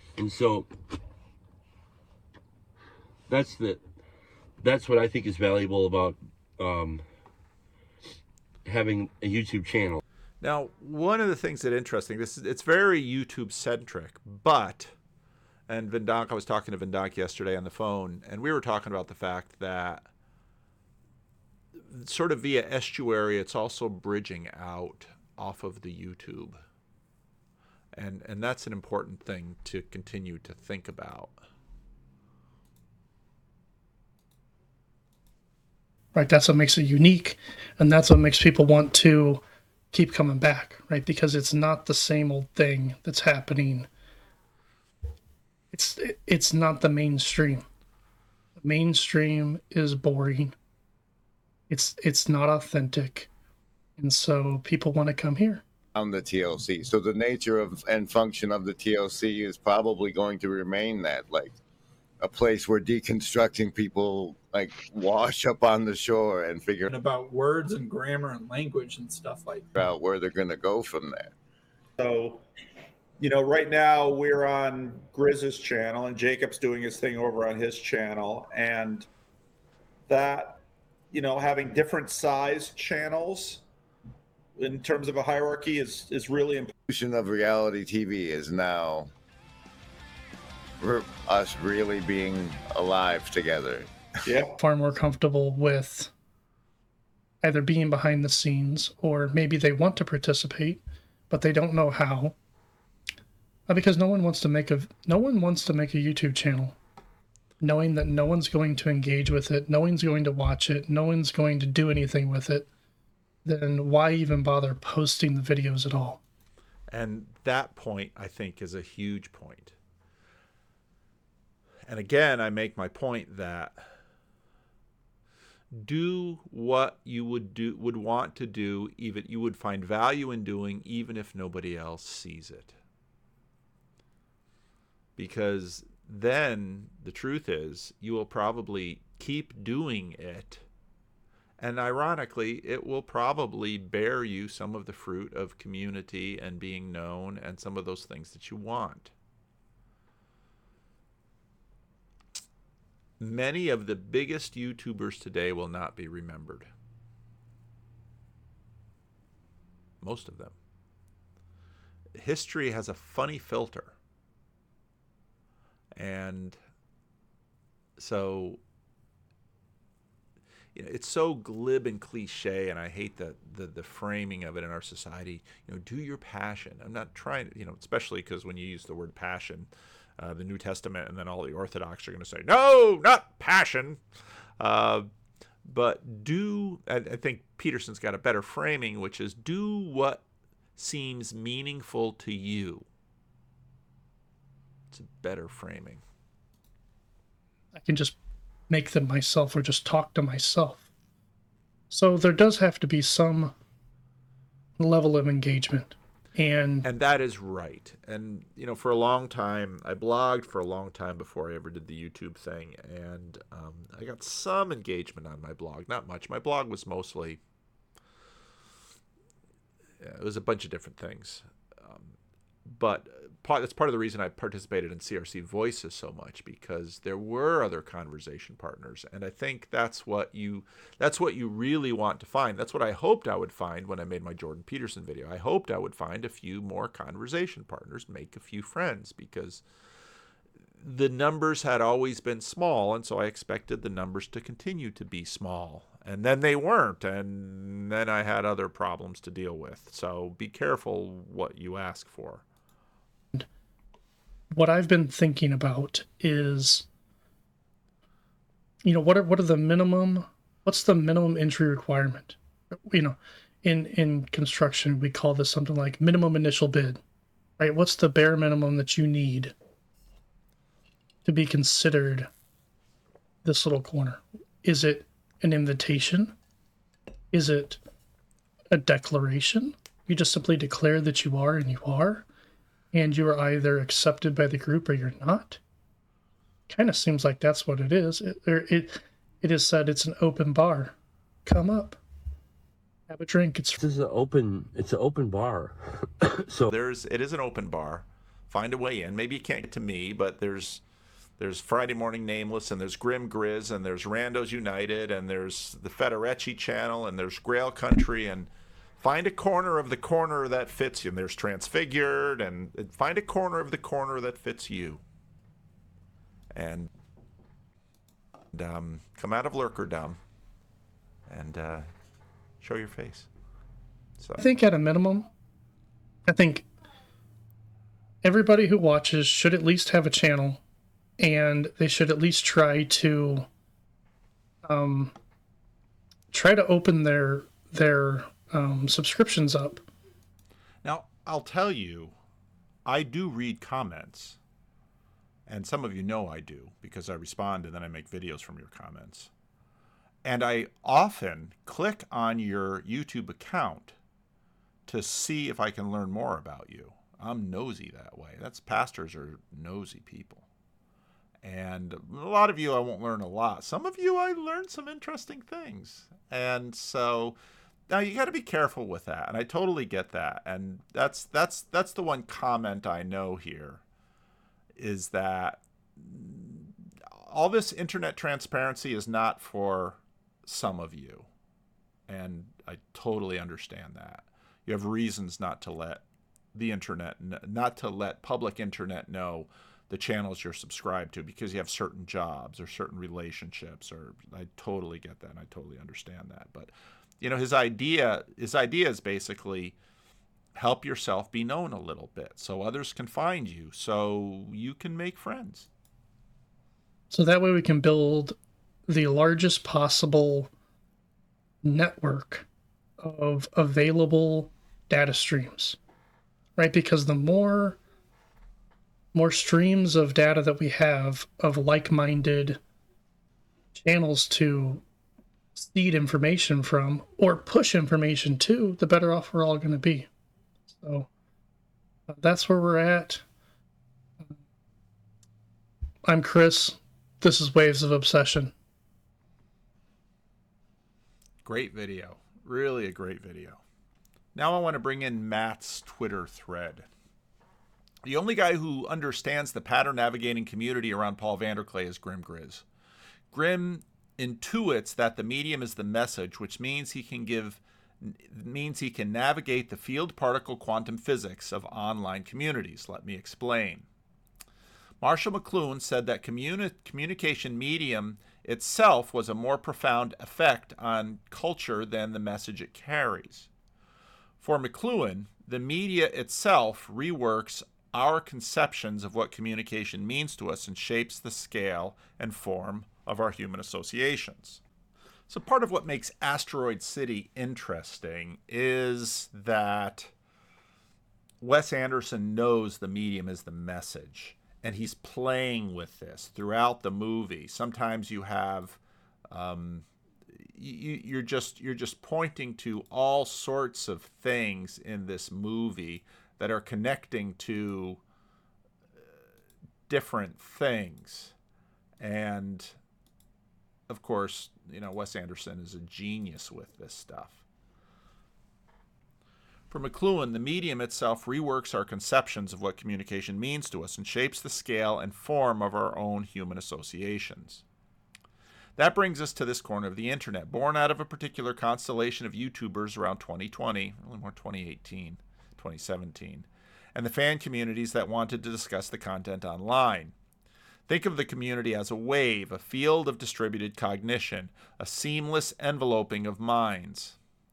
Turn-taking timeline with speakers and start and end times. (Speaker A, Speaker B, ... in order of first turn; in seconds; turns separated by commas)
Speaker A: 0.2-0.7, Speaker A: 3.3-3.8, Speaker A: 4.6-7.0, Speaker A: 8.6-10.0, Speaker B: 10.4-14.9, Speaker B: 15.7-20.1, Speaker B: 21.8-26.6, Speaker B: 27.9-31.4, Speaker C: 36.1-43.9, Speaker C: 45.7-47.6, Speaker C: 48.6-50.5, Speaker C: 51.7-53.3, Speaker C: 54.0-55.6, Speaker D: 55.9-61.5, Speaker D: 62.2-66.9, Speaker E: 66.9-69.7, Speaker D: 69.8-71.3, Speaker F: 72.0-72.4, Speaker F: 73.2-79.1, Speaker F: 80.1-80.6, Speaker F: 81.1-83.6, Speaker F: 84.6-86.7, Speaker D: 86.9-89.1, Speaker D: 90.8-93.9, Speaker F: 94.2-94.5, Speaker C: 94.6-96.1, Speaker C: 97.4-102.3, Speaker C: 103.7-106.8, Speaker C: 107.6-112.7, Speaker C: 113.4-116.2, Speaker B: 116.9-119.7, Speaker B: 121.9-123.9, Speaker B: 125.7-132.8, Speaker B: 135.2-140.6, Speaker B: 141.6-149.1, Speaker B: 153.2-156.7, Speaker B: 160.0-160.5, Speaker B: 162.1-163.9, Speaker B: 165.9-166.6, Speaker B: 168.0-168.6, Speaker B: 170.7-184.0, Speaker B: 184.6-185.1, Speaker B: 185.6-190.2, Speaker B: 190.8-192.8, Speaker B: 194.9-196.0, Speaker C: 197.7-198.2, Speaker C: 198.7-200.8, Speaker C: 201.9-203.5, Speaker C: 204.8-206.8, Speaker B: 206.8-217.4, Speaker B: 220.0-239.6, Speaker B: 240.8-252.4, Speaker C: 254.5-256.9, Speaker C: 258.8-267.0, Speaker C: 267.6-269.5, Speaker C: 271.2-272.3, Speaker C: 273.4-276.3, Speaker C: 277.3-277.8, Speaker C: 278.7-282.2, Speaker C: 282.9-285.6, Speaker C: 286.7-290.9, Speaker C: 291.4-292.0, Speaker C: 293.1-293.8, Speaker A: 293.8-296.7, Speaker B: 296.7-300.8, Speaker B: 301.4-308.5, Speaker B: 309.0-315.0, Speaker B: 316.5-316.9, Speaker B: 318.5-320.2, Speaker B: 321.3-321.9, Speaker B: 322.6-323.3, Speaker C: 324.4-325.3, Speaker C: 326.3-326.6, Speaker C: 328.2-330.6, Speaker C: 331.2-333.5, Speaker C: 334.6-335.1, Speaker C: 336.3-339.8, Speaker B: 340.8-342.1, Speaker B: 342.9-344.4, Speaker B: 345.5-349.3, Speaker B: 350.2-353.9, Speaker B: 354.9-360.4, Speaker B: 361.4-367.4, Speaker B: 367.9-373.8, Speaker B: 374.8-381.3, Speaker B: 382.1-386.0, Speaker B: 386.5-399.7, Speaker B: 400.5-405.7, Speaker C: 407.1-410.5, Speaker C: 411.6-412.4, Speaker C: 413.0-415.8, Speaker C: 416.6-417.8, Speaker C: 419.1-422.6, Speaker C: 423.7-424.8, Speaker C: 425.6-430.1, Speaker C: 430.7-431.1, Speaker C: 432.1-433.2, Speaker C: 436.0-438.5, Speaker B: 441.4-443.6, Speaker B: 444.3-446.9, Speaker B: 448.0-452.6, Speaker B: 453.3-463.8, Speaker B: 465.0-473.5, Speaker B: 474.4-484.6, Speaker B: 485.3-490.1, Speaker B: 491.4-498.8, Speaker B: 499.3-499.8, Speaker B: 500.4-508.0, Speaker B: 509.9-511.3, Speaker B: 512.0-512.7, Speaker B: 513.9-517.4, Speaker B: 519.7-527.6, Speaker B: 528.8-540.1, Speaker B: 540.9-547.2